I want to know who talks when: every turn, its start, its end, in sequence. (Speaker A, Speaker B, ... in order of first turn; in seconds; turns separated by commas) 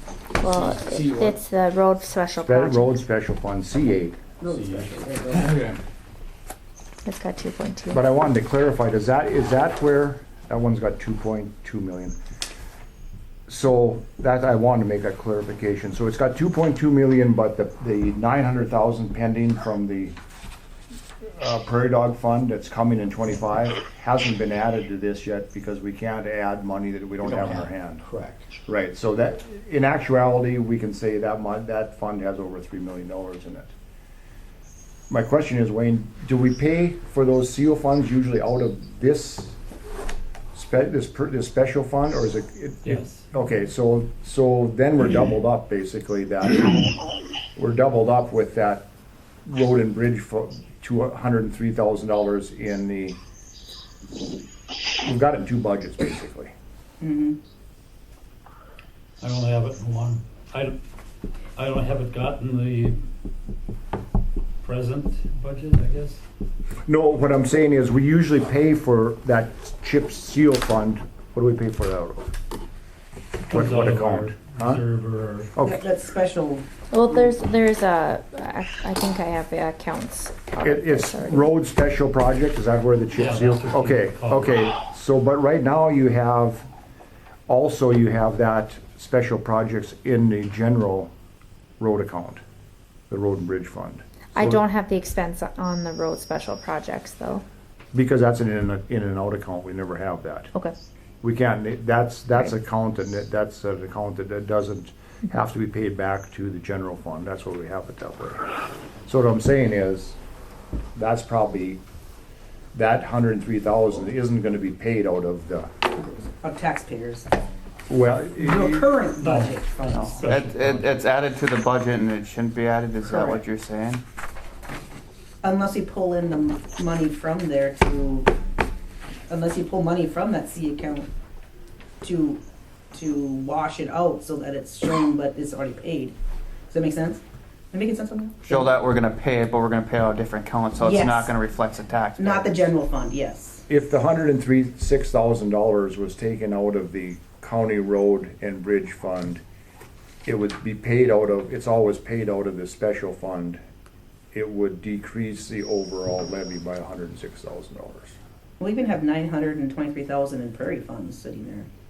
Speaker A: 0.4-3.0, Speaker B: 0.6-1.4, Speaker C: 2.3-4.2, Speaker D: 4.5-5.4, Speaker B: 4.5-5.7, Speaker A: 7.0-8.0, Speaker C: 7.9-12.2, Speaker C: 13.5-20.1, Speaker C: 21.2-28.0, Speaker B: 27.2-28.4, Speaker C: 28.6-33.7, Speaker C: 35.1-39.6, Speaker C: 40.5-46.9, Speaker E: 42.8-43.3, Speaker C: 47.5-48.9, Speaker C: 49.5-53.2, Speaker C: 55.0-56.5, Speaker D: 57.0-57.4, Speaker E: 59.2-60.8, Speaker E: 61.5-63.0, Speaker E: 64.6-66.2, Speaker C: 66.9-72.3, Speaker E: 73.5-75.5, Speaker C: 73.5-74.8, Speaker C: 75.5-75.8, Speaker D: 75.6-77.3, Speaker A: 76.9-81.5, Speaker C: 80.6-86.7, Speaker E: 83.1-84.6, Speaker C: 87.5-91.1, Speaker C: 91.8-92.4, Speaker C: 93.1-94.6, Speaker A: 94.3-97.4, Speaker C: 97.9-100.5, Speaker C: 101.2-108.5, Speaker C: 109.0-110.2, Speaker C: 110.9-111.8, Speaker C: 112.7-115.7, Speaker D: 116.0-117.3, Speaker C: 117.9-118.9, Speaker D: 118.4-120.2, Speaker E: 119.2-120.9, Speaker F: 119.9-124.0, Speaker D: 123.0-123.4, Speaker D: 125.4-128.3, Speaker D: 129.3-131.1, Speaker D: 132.0-132.4, Speaker D: 132.9-136.1, Speaker D: 136.7-138.7, Speaker F: 138.4-142.6, Speaker D: 140.8-141.3, Speaker D: 142.2-143.6, Speaker C: 143.7-149.4, Speaker C: 150.2-153.6, Speaker C: 154.3-158.2, Speaker D: 158.6-161.7